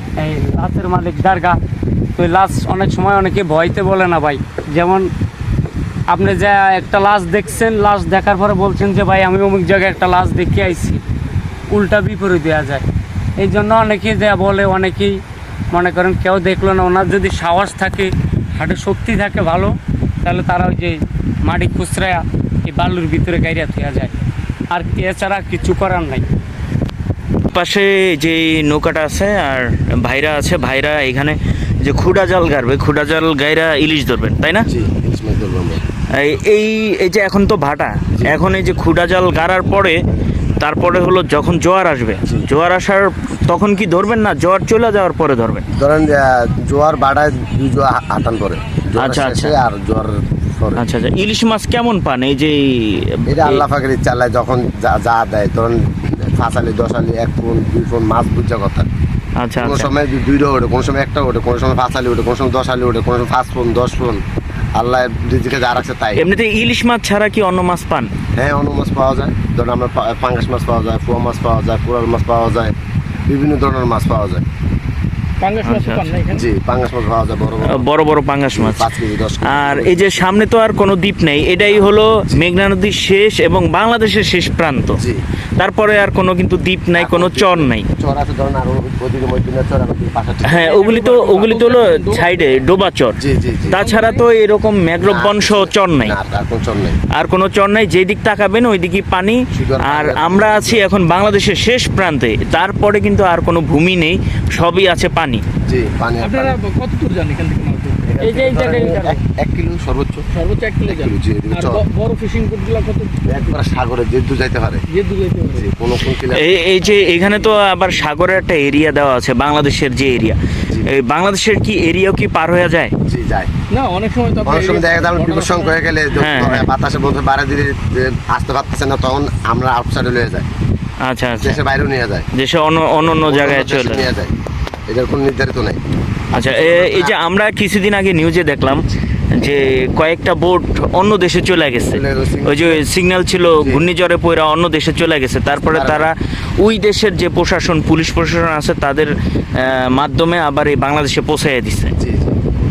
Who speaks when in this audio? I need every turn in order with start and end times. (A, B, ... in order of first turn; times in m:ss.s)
0:00.2-0:01.6 A
0:02.2-0:05.1 A
0:06.1-0:11.0 A
0:11.7-0:12.8 A
0:13.4-0:24.1 A
0:24.7-0:26.2 A
0:27.5-0:34.7 B
0:34.7-0:35.8 C
0:36.1-0:40.0 B
0:40.6-0:45.6 B
0:45.7-0:50.8 C
0:49.0-0:49.5 B
0:50.7-0:53.6 B
0:53.3-0:58.8 C
0:59.4-0:59.9 B
0:59.6-1:04.2 C
1:04.8-1:06.2 C
1:06.1-1:08.1 B
1:08.4-1:12.7 C
1:13.3-1:14.4 C
1:15.4-1:16.5 D
1:15.6-1:16.1 B
1:16.3-1:17.8 C
1:17.6-1:18.9 B
1:18.5-1:20.4 C
1:19.4-1:25.0 B
1:21.7-1:22.4 C
1:25.6-1:27.9 B
1:27.0-1:30.7 C
1:30.4-1:36.2 B
1:30.6-1:32.4 D
1:33.2-1:33.8 C
1:33.8-1:34.2 D
1:35.0-1:37.0 C
1:37.1-1:45.4 B
1:39.5-1:40.9 C
1:45.7-1:46.6 C
1:46.2-1:48.2 D
1:48.1-1:50.3 C
1:48.2-1:49.2 A
1:50.3-1:53.4 D
1:50.9-1:51.8 C
1:53.3-1:54.8 C
1:54.9-1:55.7 D
1:55.5-1:56.6 C
1:56.3-2:02.9 B
1:57.0-1:57.6 D
2:03.1-2:03.5 C
2:03.7-2:05.8 D
2:04.4-2:10.5 C
2:06.1-2:06.7 B
2:11.0-2:11.6 B
2:11.4-2:12.3 C
2:12.3-2:14.1 B
2:13.0-2:14.3 C
2:14.9-2:15.8 C
2:16.3-2:31.9 B
2:16.4-2:17.1 C
2:21.9-2:22.8 C
2:25.7-2:26.1 C
2:32.0-2:32.4 C